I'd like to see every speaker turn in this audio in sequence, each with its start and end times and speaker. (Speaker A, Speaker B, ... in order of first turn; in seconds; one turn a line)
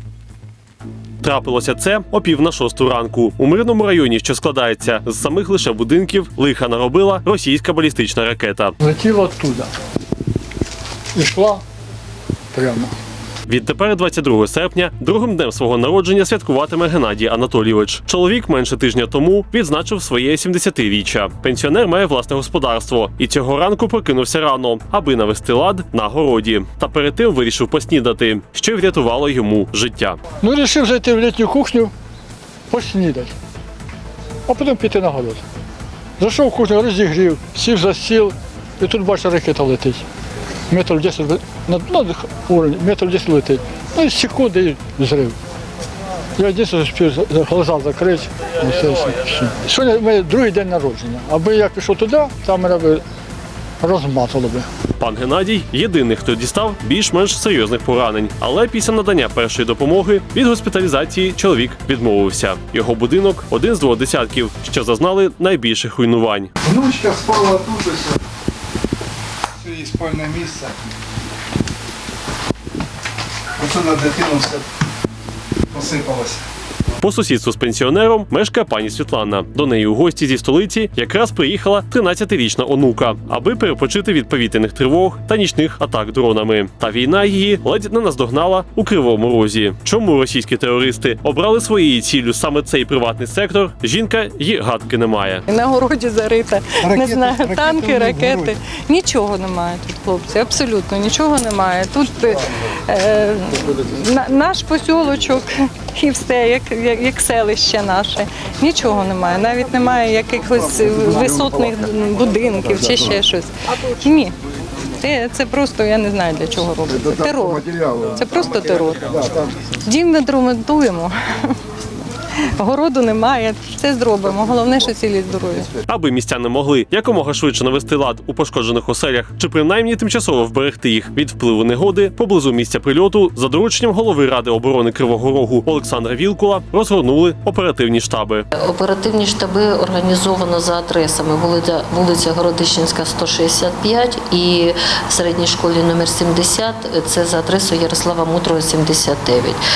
Speaker A: 1.2-8.8
Speaker B: 8.8-9.7
Speaker B: 11.2-11.6
Speaker B: 12.5-12.9
Speaker A: 13.5-30.2
Speaker B: 30.4-31.9
Speaker B: 32.7-33.3
Speaker B: 34.5-35.4
Speaker B: 36.2-40.0
Speaker B: 40.7-45.4
Speaker B: 46.4-53.0
Speaker B: 53.8-54.7
Speaker A: 55.0-66.5
Speaker C: 66.6-68.2
Speaker C: 69.6-70.7
Speaker C: 73.6-74.7
Speaker C: 75.7-76.4
Speaker A: 77.0-95.5
Speaker D: 95.5-114.4
Speaker C: 96.8-98.5
Speaker D: 115.0-119.2
Speaker D: 119.7-121.6
Speaker D: 122.4-125.7
Speaker A: 125.8-138.5
Speaker E: 138.6-149.6